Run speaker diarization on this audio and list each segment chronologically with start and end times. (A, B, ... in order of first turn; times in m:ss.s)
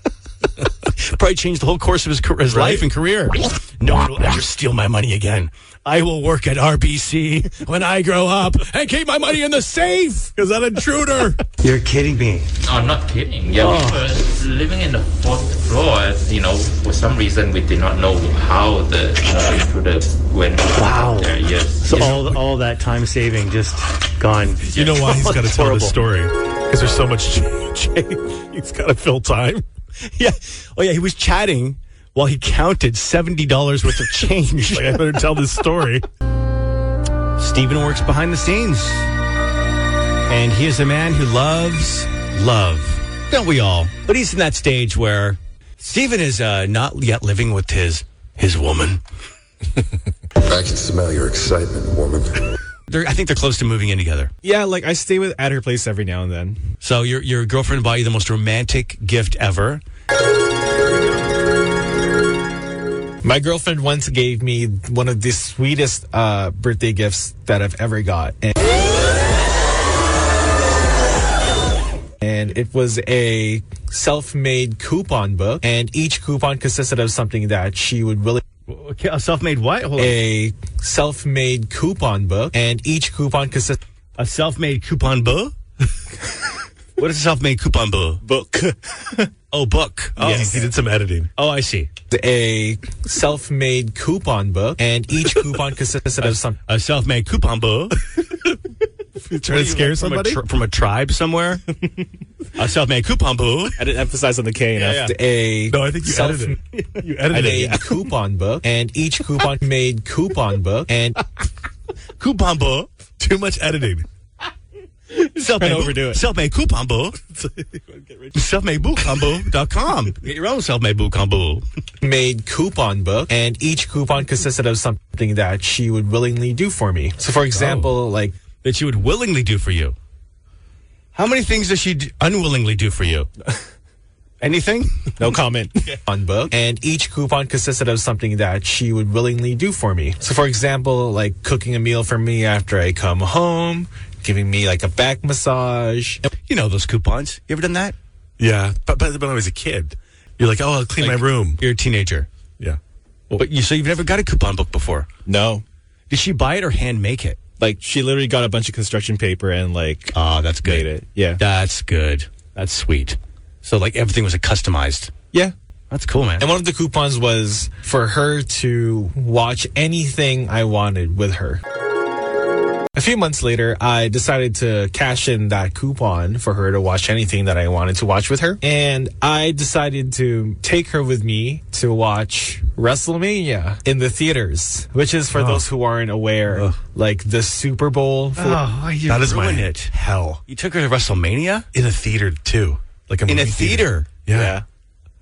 0:00.9-0:10.4 A
0:02.5-0:02.9 B
0:10.4-0:11.4 B
0:11.6-0:12.5 A
0:12.6-0:22.2 C
0:13.6-0:14.0 A
0:20.7-0:26.0 A
0:22.0-0:22.4 B
0:24.6-0:29.6 B
0:30.0-0:35.2 A
0:34.7-0:36.0 B
0:37.4-0:39.1 A
0:40.3-0:49.0 A
0:50.4-0:52.4 D
0:52.9-0:54.3 A
0:54.4-0:56.6 E
0:56.8-0:59.8 A
1:03.2-1:08.7 E
1:12.2-1:18.4 E
1:18.7-1:20.2 A
1:20.0-1:23.8 E
1:24.2-1:25.5 A
1:27.0-1:28.2 A
1:28.2-1:29.2 E
1:29.5-1:30.6 A
1:30.2-1:31.3 B
1:30.2-1:30.5 E
1:31.4-1:31.9 A
1:32.1-1:36.6 E
1:36.2-1:38.0 A
1:39.2-1:40.4 B
1:39.4-1:41.6 A
1:42.5-1:43.8 A
1:43.8-1:46.6 E
1:44.8-1:45.1 A
1:45.7-1:48.0 B
1:46.7-1:47.1 A
1:47.3-1:51.2 E
1:52.2-1:52.9 A
1:53.2-1:54.0 B
1:55.1-1:57.2 A
1:55.4-1:56.2 E
1:57.3-1:58.4 B
1:58.3-2:01.6 A
1:59.0-1:59.5 B
2:02.0-2:08.3 E
2:07.6-2:07.9 A
2:08.6-2:10.0 A
2:11.1-2:13.3 A
2:14.4-2:15.1 A
2:15.2-2:26.2 E
2:26.4-2:28.0 A
2:28.4-2:31.6 B
2:31.0-2:32.3 A
2:33.3-2:35.1 A
2:35.2-2:35.6 E
2:36.1-2:37.4 A
2:37.6-2:41.4 E
2:40.1-2:45.1 A
2:45.9-2:46.5 A
2:46.4-2:51.6 E
2:52.9-3:08.6 E
3:05.3-3:05.6 B
3:06.5-3:06.8 B
3:08.4-3:11.7 A
3:09.1-3:10.4 B
3:11.7-3:14.6 B
3:13.3-3:14.1 A
3:14.3-3:14.6 E